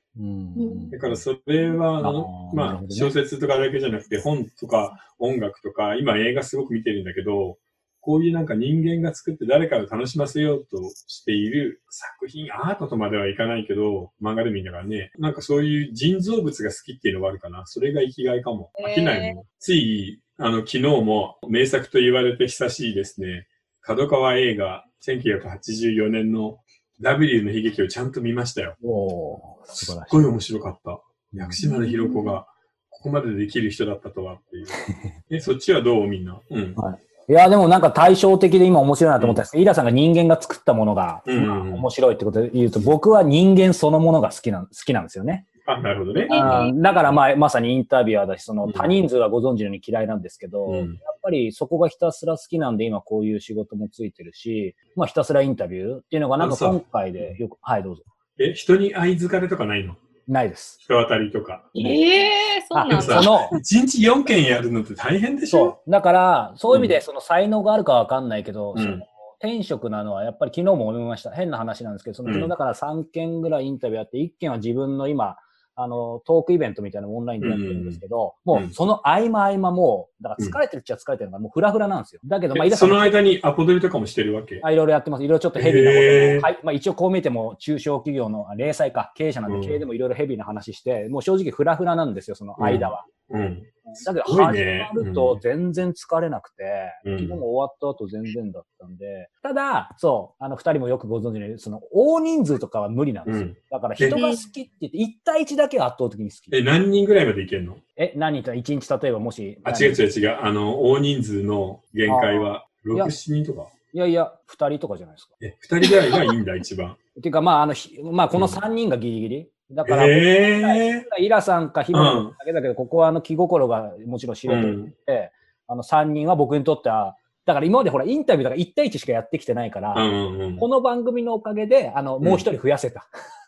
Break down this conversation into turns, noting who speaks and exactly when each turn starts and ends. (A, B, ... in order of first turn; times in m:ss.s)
0:00.2-0:01.2 A
0:00.6-0:00.9 B
0:00.9-0:28.8 C
0:02.0-0:03.1 A
0:18.8-0:19.4 B
0:28.8-0:30.3 A
0:29.8-0:36.8 C
0:31.3-0:31.6 A
0:31.6-0:32.4 B
0:34.7-0:35.1 A
0:36.8-0:45.4 A
0:41.3-0:41.8 C
0:45.6-0:46.6 C
0:46.1-0:47.1 B
0:46.3-0:58.0 A
0:48.6-0:48.9 C
0:50.6-0:51.0 C
0:56.4-0:57.3 C
0:58.4-1:00.0 C
1:00.2-1:00.8 A
1:00.8-1:01.7 C
1:01.7-1:03.3 B
1:02.7-1:03.6 A
1:02.9-1:05.8 C
1:05.5-1:23.1 A
1:06.7-1:07.0 C
1:08.7-1:09.0 C
1:12.2-1:12.5 C
1:17.4-1:18.0 C
1:22.5-1:24.6 C
1:24.6-1:33.0 A
1:25.6-1:26.5 C
1:29.5-1:29.8 C
1:32.6-1:35.4 C
1:33.9-1:46.6 A
1:37.0-1:37.4 C
1:43.2-1:44.2 C
1:44.1-1:44.5 B
1:46.5-1:47.8 C
1:48.0-1:50.0 A
1:49.6-1:53.7 C
1:52.1-1:53.1 A
1:53.9-1:55.3 A
1:55.4-1:57.0 C
1:55.8-1:56.1 B
1:57.2-2:10.0 A
1:58.3-1:58.6 C
1:59.8-2:01.0 C
2:01.9-2:02.3 C
2:04.5-2:04.9 C
2:09.9-2:10.6 C
2:10.6-2:13.1 A